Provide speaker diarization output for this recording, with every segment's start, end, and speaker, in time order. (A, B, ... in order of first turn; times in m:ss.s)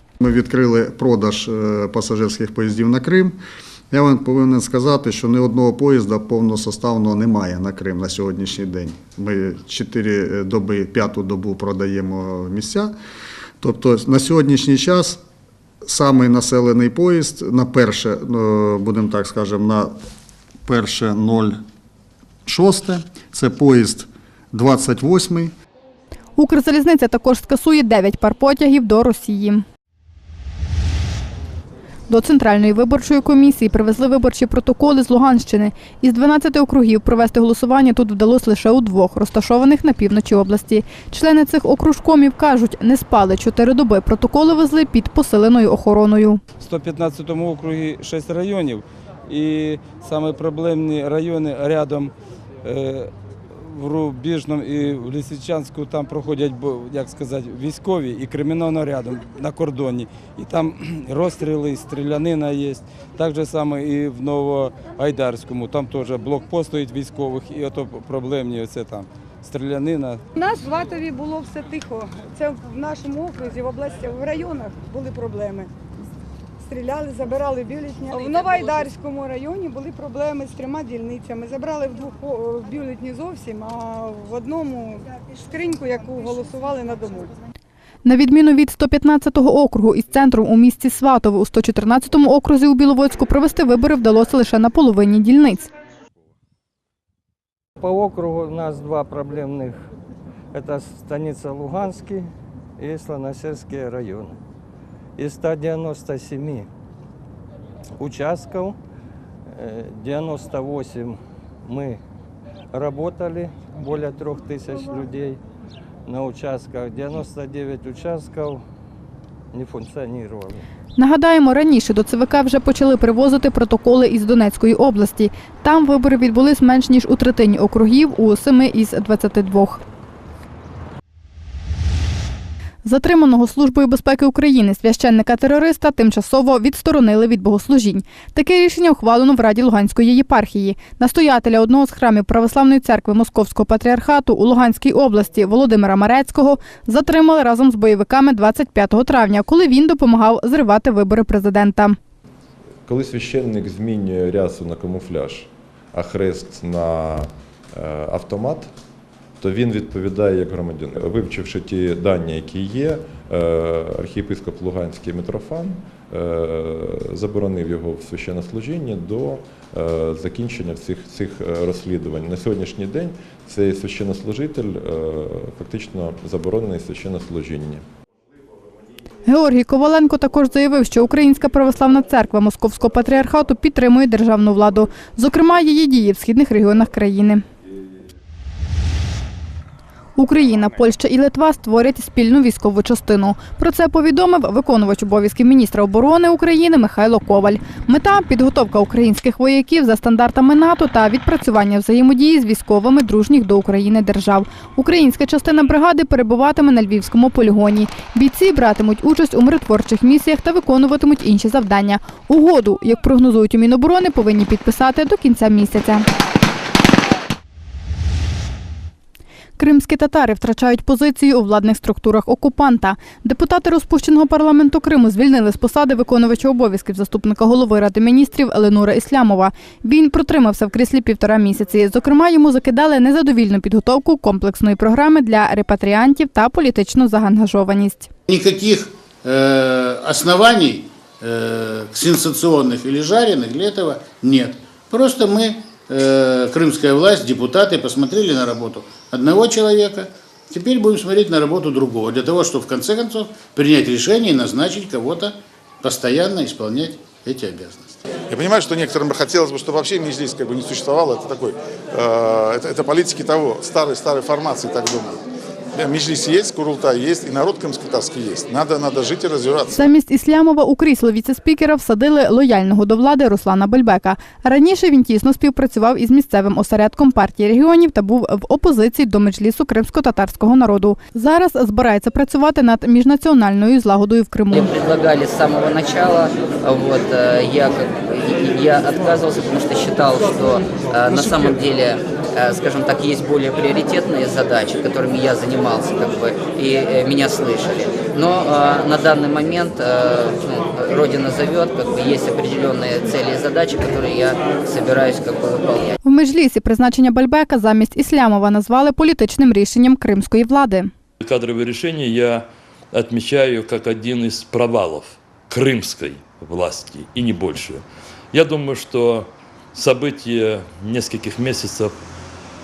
0:00.2-0:03.4 A
0:03.9-0:12.9 A
0:13.6-0:15.2 A
0:15.8-0:19.9 A
0:20.7-0:21.6 A
0:22.5-0:25.5 A
0:26.4-0:29.6 B
0:32.1-0:46.4 B
0:46.6-0:52.1 C
0:52.6-1:10.2 C
1:10.4-1:15.7 D
1:16.6-1:27.3 D
1:28.0-1:35.7 B
1:37.8-1:39.8 E
1:40.5-1:44.4 E
1:45.2-1:46.7 E
1:48.0-1:48.8 E
1:49.5-1:52.0 E
1:52.7-1:55.4 E
1:56.1-1:58.6 E
1:59.5-2:00.6 E
2:01.0-2:09.8 B
2:12.8-2:32.0 B
2:32.9-2:38.7 F
2:39.4-2:57.8 F
2:59.2-3:07.4 B
3:10.2-3:36.1 B
3:39.6-3:58.1 B
3:58.3-4:18.0 G
4:18.3-4:25.1 H
4:25.8-4:29.8 H
4:29.8-4:44.7 B
4:44.5-5:06.0 I
5:06.0-5:10.9 B
5:11.2-5:22.0 J